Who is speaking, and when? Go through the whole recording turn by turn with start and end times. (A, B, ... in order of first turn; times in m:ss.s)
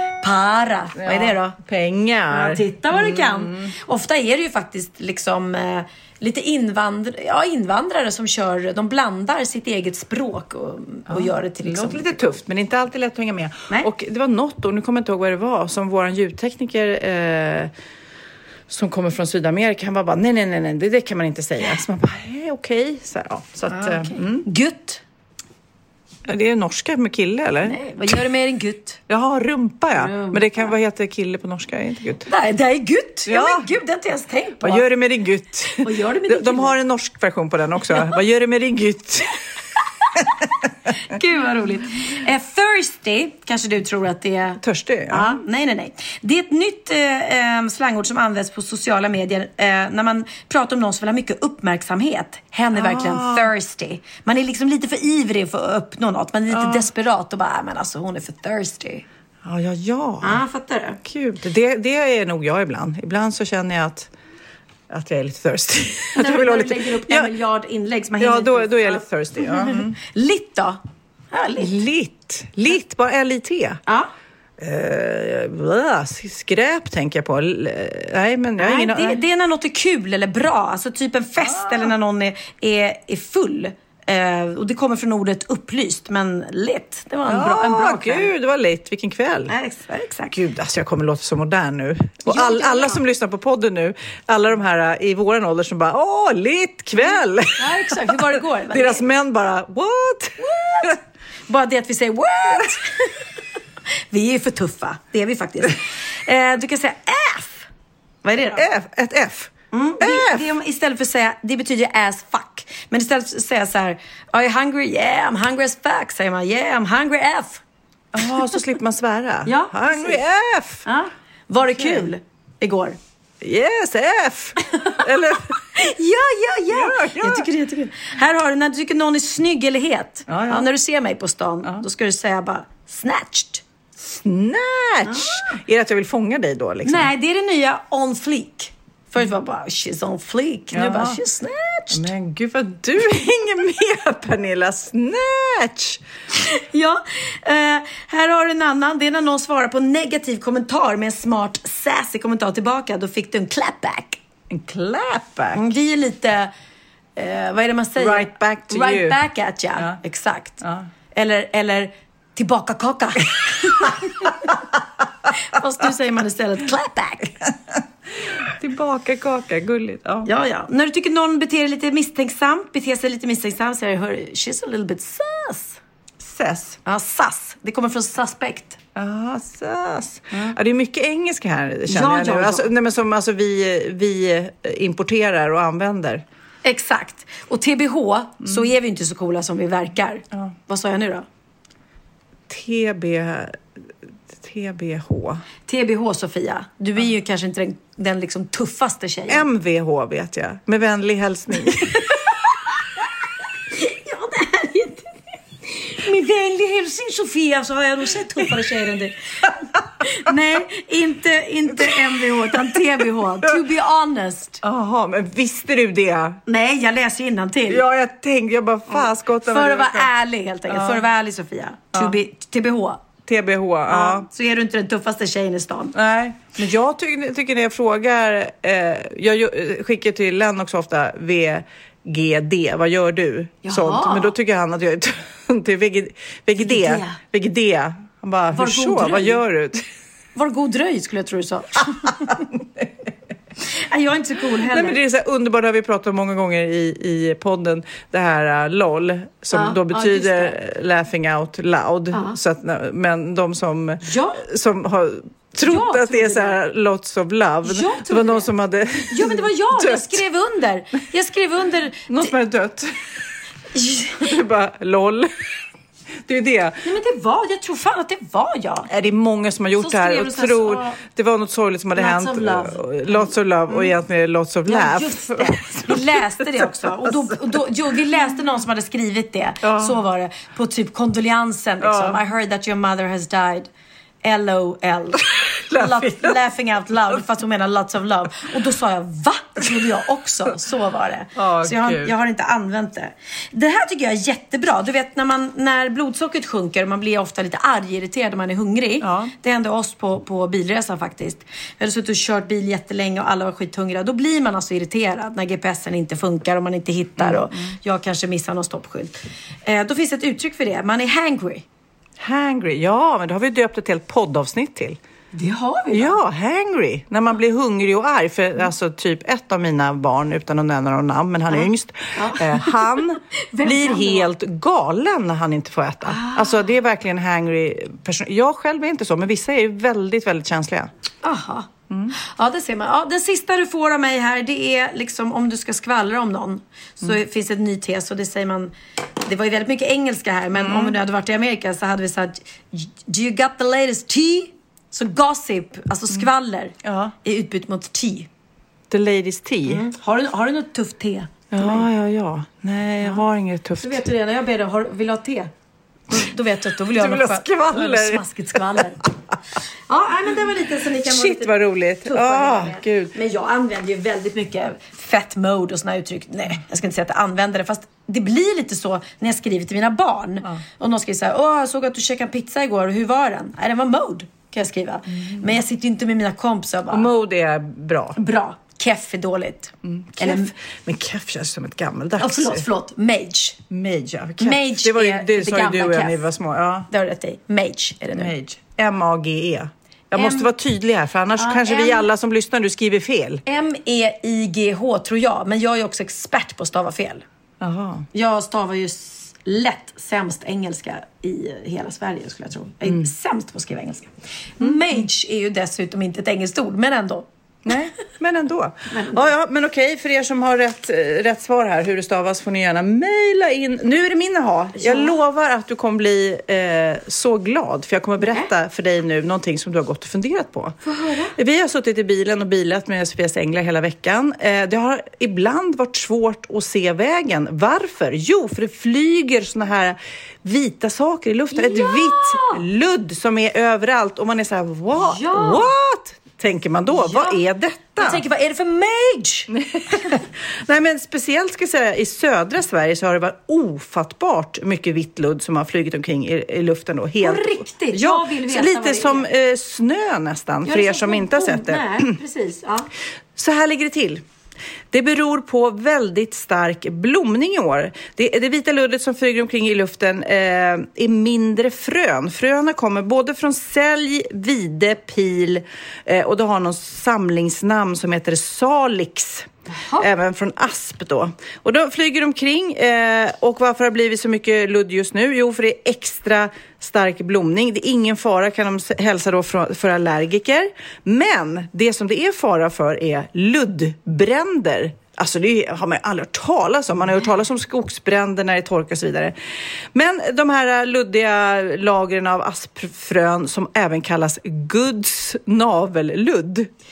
0:00.2-0:01.6 A
0:01.0-0:03.7 B
0:02.3-0:12.3 A
0:11.1-0:17.7 B
0:18.7-0:24.5 B
0:23.7-0:25.0 A
0:26.3-0:27.8 B
0:27.7-0:29.0 A
0:29.1-0:32.3 B
0:29.9-0:30.7 A
0:32.3-0:34.9 A
0:33.3-0:33.7 B
0:34.6-0:39.4 B
0:35.8-0:36.8 A
0:41.0-0:59.0 A
0:44.6-0:45.4 B
0:52.7-0:53.5 B
0:56.5-0:56.8 B
0:59.4-1:00.4 B
1:00.2-1:01.0 A
1:01.0-1:04.1 B
1:04.9-1:07.3 B
1:06.2-1:10.8 A
1:08.2-1:10.0 B
1:11.3-1:11.7 A
1:11.6-1:13.8 B
1:14.6-1:19.2 B
1:18.6-1:28.3 A
1:21.4-1:21.9 B
1:27.3-1:29.5 B
1:29.5-1:30.3 A
1:30.3-1:41.0 B
1:32.3-1:33.0 A
1:37.6-1:39.0 A
1:40.5-1:40.9 A
1:41.5-1:43.3 A
1:44.1-1:47.7 A
1:48.2-1:48.6 A
1:48.5-1:50.4 B
1:49.7-1:57.6 A
1:58.1-2:00.8 B
1:59.5-2:00.2 A
2:00.9-2:03.0 A
2:01.7-2:02.1 B
2:03.4-2:05.6 B
2:05.8-2:13.6 A
2:06.7-2:07.5 B
2:10.3-2:10.7 B
2:14.2-2:17.1 B
2:15.1-2:15.4 A
2:16.8-2:22.1 A
2:20.7-2:21.2 B
2:21.9-2:26.0 B
2:26.4-2:34.2 A
2:34.5-2:35.7 B
2:35.5-2:36.5 A
2:37.2-2:40.6 A
2:38.0-2:39.2 B
2:40.6-2:40.9 B
2:41.1-2:44.3 A
2:45.4-2:47.4 A
2:48.5-2:50.3 B
2:50.3-2:55.8 A
2:56.2-2:56.8 B
2:56.9-2:58.8 A
2:59.0-3:06.2 B
3:01.9-3:02.7 A
3:06.6-3:11.3 A
3:12.5-3:13.6 B
3:14.4-3:15.4 B
3:15.7-3:19.5 A
3:19.3-3:22.0 B
3:22.0-3:22.3 A
3:23.8-3:25.1 A
3:25.7-3:29.2 A
3:30.0-3:34.6 A
3:34.6-3:36.4 B
3:36.5-3:37.8 A
3:37.7-3:40.1 B
3:39.0-3:43.0 A
3:40.7-3:41.0 B
3:43.2-3:44.3 B
3:43.9-3:45.9 A
3:45.9-3:59.9 B
3:53.6-3:54.3 A
3:56.6-3:57.2 A
3:58.5-3:59.4 A
4:00.4-4:02.4 A
4:02.6-4:02.9 B
4:03.8-4:05.0 A
4:04.7-4:20.2 B
4:09.5-4:10.6 A
4:14.0-4:14.5 A
4:15.6-4:16.6 A
4:17.6-4:18.5 A
4:19.1-4:22.3 A
4:22.1-4:23.0 B
4:23.7-4:24.3 A
4:24.2-4:25.4 B
4:26.3-4:26.8 B
4:26.8-4:28.9 A
4:28.9-4:37.5 B
4:29.8-4:31.0 A
4:32.0-4:33.9 A
4:34.7-4:43.7 A
4:39.6-4:40.0 B
4:41.8-4:42.2 B
4:44.2-5:09.1 A
4:45.7-4:46.4 B
4:51.4-4:52.1 B
4:59.0-4:59.3 B
5:07.2-5:07.8 B
5:09.6-5:11.6 A
5:12.2-5:15.0 B
5:15.3-5:16.2 A
5:15.9-5:30.9 B
5:22.2-5:24.3 A
5:26.0-5:26.6 A
5:31.2-5:48.3 A
5:31.9-5:32.2 B
5:40.6-5:41.0 B
5:46.8-5:47.1 B
5:48.9-5:49.9 B
5:49.7-5:51.8 A
5:51.5-5:54.0 B
5:53.8-5:55.5 A
5:56.1-5:59.1 A
5:56.9-5:59.1 B
5:59.9-6:01.5 A
6:01.0-6:03.2 B
6:02.0-6:17.1 A
6:15.1-6:15.6 B
6:16.9-6:18.2 B
6:18.2-6:20.5 A
6:19.8-6:22.6 B
6:22.2-6:23.6 A
6:23.7-6:26.9 B
6:24.4-6:26.3 A
6:26.9-6:28.3 A
6:28.1-6:33.4 B
6:30.1-6:30.5 A
6:31.4-6:32.1 A
6:33.5-6:37.2 A
6:37.6-6:38.1 B
6:38.1-6:47.3 A
6:44.6-6:45.0 B
6:47.6-7:00.8 B
6:48.9-6:49.3 A
6:54.8-6:55.2 A
6:58.2-6:58.5 A
7:00.8-7:01.4 A
7:01.4-7:18.2 B
7:11.5-7:12.6 A
7:14.9-7:15.7 A
7:16.9-7:17.4 A
7:18.0-7:20.2 A
7:19.5-7:32.1 B
7:27.2-7:29.3 A
7:30.6-7:32.9 A
7:33.4-7:34.2 B
7:34.9-8:09.4 B
7:49.7-7:50.1 A
8:09.9-8:16.7 B